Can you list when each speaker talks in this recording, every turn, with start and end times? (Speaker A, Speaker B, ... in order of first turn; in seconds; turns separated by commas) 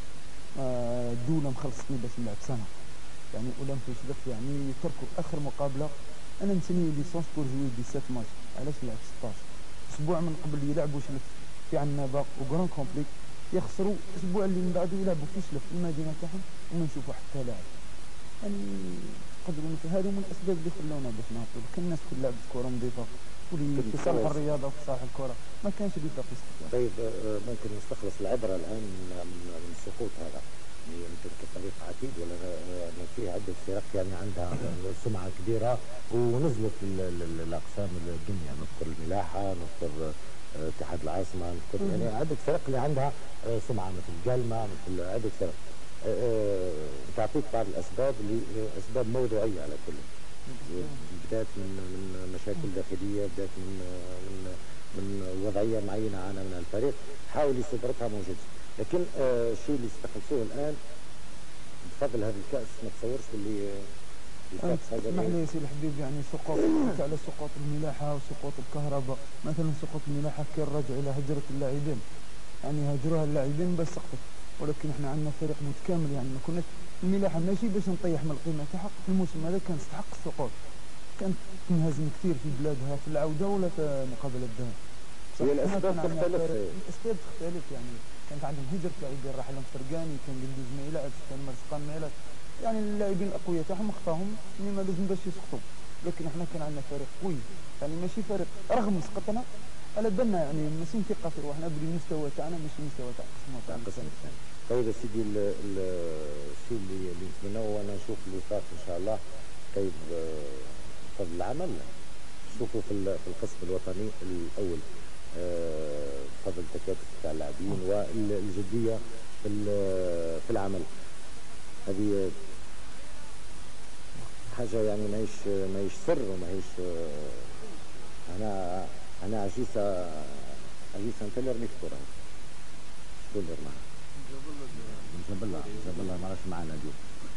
Speaker A: 0.6-2.7, Speaker A: 3.3-17.6, Speaker A: 18.4-26.7, Speaker B: 23.7-24.4, Speaker B: 26.7-50.1, Speaker A: 50.6-50.9, Speaker B: 50.6-60.8, Speaker B: 61.9-63.9, Speaker B: 64.5-65.3, Speaker A: 64.6-72.0, Speaker A: 72.6-80.5, Speaker A: 81.2-84.8, Speaker A: 85.3-104.1, Speaker B: 85.4-86.8, Speaker B: 103.7-109.2, Speaker B: 109.7-111.9, Speaker B: 112.5-114.8, Speaker B: 115.3-120.9, Speaker B: 121.9-122.3, Speaker B: 124.5-127.6, Speaker B: 128.3-132.1, Speaker B: 133.2-133.8, Speaker B: 134.7-137.0